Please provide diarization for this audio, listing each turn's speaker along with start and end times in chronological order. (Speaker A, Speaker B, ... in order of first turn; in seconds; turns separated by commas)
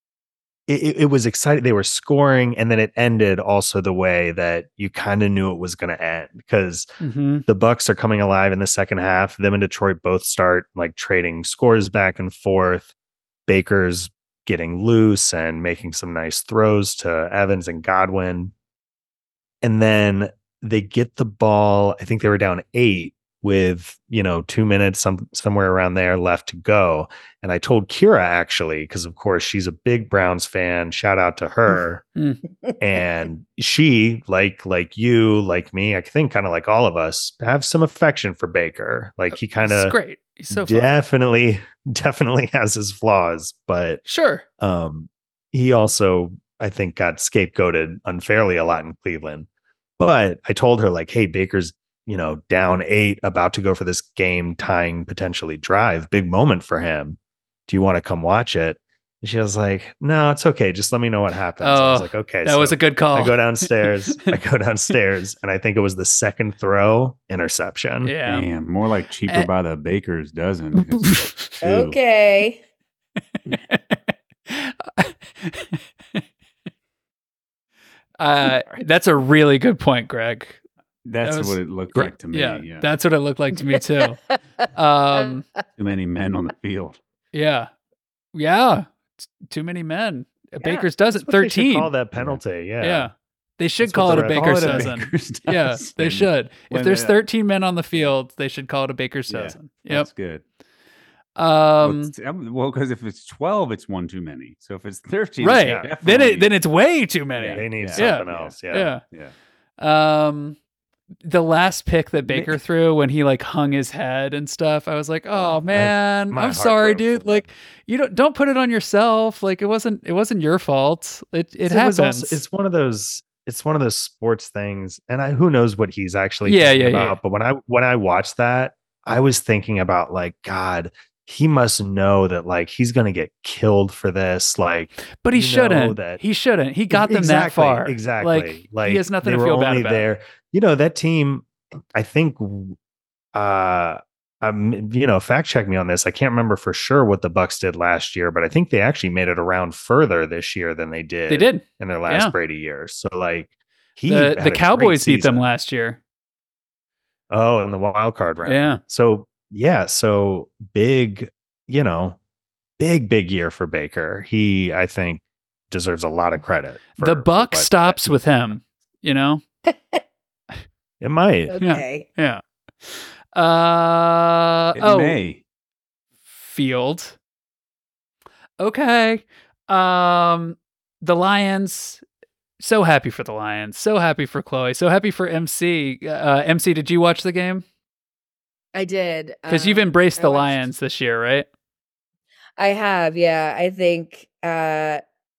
Speaker A: 0.7-6.9, Speaker B: 7.0-7.5, Speaker A: 7.5-12.9, Speaker A: 13.5-18.5, Speaker A: 19.6-32.0, Speaker B: 32.2-32.4, Speaker A: 32.8-40.0, Speaker B: 39.3-40.9, Speaker A: 40.5-44.0, Speaker B: 44.0-44.4, Speaker A: 44.6-49.5, Speaker A: 50.0-68.1, Speaker B: 61.6-64.4, Speaker B: 68.0-68.5, Speaker C: 68.2-72.0, Speaker B: 70.8-71.6, Speaker D: 71.6-72.6, Speaker B: 73.5-76.2, Speaker B: 78.2-80.6, Speaker C: 78.5-78.9, Speaker C: 81.0-82.9, Speaker B: 81.2-84.2, Speaker B: 84.7-85.5, Speaker C: 85.8-87.0, Speaker B: 87.3-87.7, Speaker B: 88.3-91.9, Speaker A: 91.2-93.1, Speaker C: 92.2-92.4, Speaker B: 92.8-100.1, Speaker A: 93.8-95.0, Speaker C: 93.9-97.2, Speaker C: 99.3-100.4, Speaker B: 101.4-102.1, Speaker C: 101.8-106.5, Speaker B: 105.4-109.0, Speaker A: 105.6-106.0, Speaker C: 107.4-109.3, Speaker A: 107.5-109.0, Speaker B: 109.8-110.6, Speaker B: 111.2-122.4, Speaker C: 112.2-112.6, Speaker A: 115.7-117.5, Speaker A: 121.7-136.2, Speaker B: 126.5-127.2, Speaker B: 135.1-140.1, Speaker A: 136.9-142.8, Speaker A: 143.3-155.4, Speaker B: 151.3-152.4, Speaker B: 154.1-156.0, Speaker A: 157.3-162.2, Speaker B: 158.4-158.8, Speaker A: 162.8-168.2, Speaker B: 167.0-169.4, Speaker D: 169.7-170.0, Speaker A: 171.0-171.5, Speaker D: 171.5-172.1, Speaker B: 171.6-175.2, Speaker C: 174.8-175.4, Speaker B: 176.3-177.2, Speaker B: 178.6-182.0, Speaker B: 182.6-187.6, Speaker D: 188.7-190.7, Speaker B: 189.5-191.5, Speaker D: 192.6-195.0